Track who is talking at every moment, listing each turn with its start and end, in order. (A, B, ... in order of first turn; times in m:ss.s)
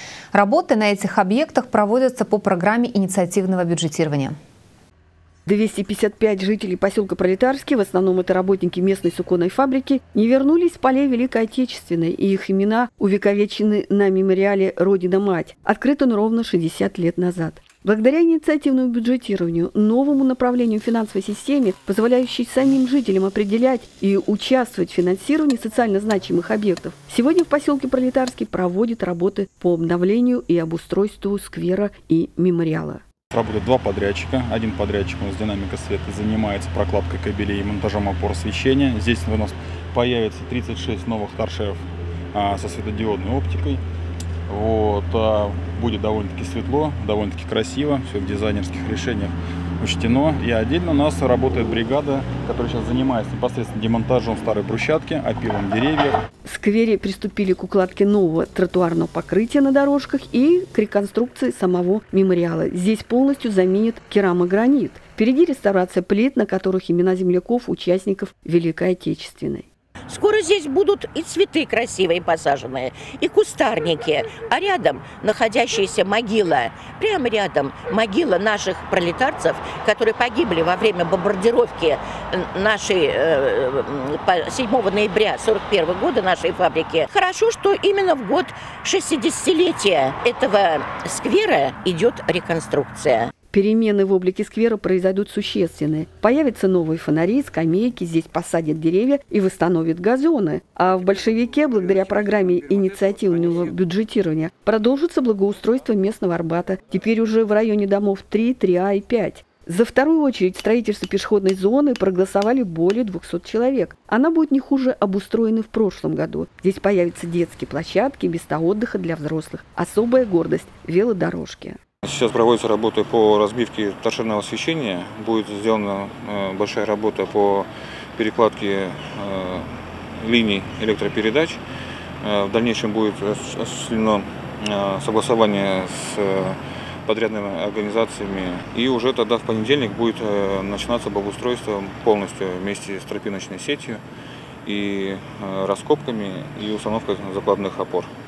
0:00.3-0:04.4 A
0:05.4-0:33.0 B
0:33.3-0:43.8 C
0:44.5-0:56.2 C
0:56.4-1:09.7 B
1:10.1-1:33.3 D
1:33.5-2:01.8 B
2:02.1-2:07.6 E
2:08.2-2:09.6 E
2:10.2-2:11.5 E
2:12.2-2:24.0 E
2:24.6-2:28.0 E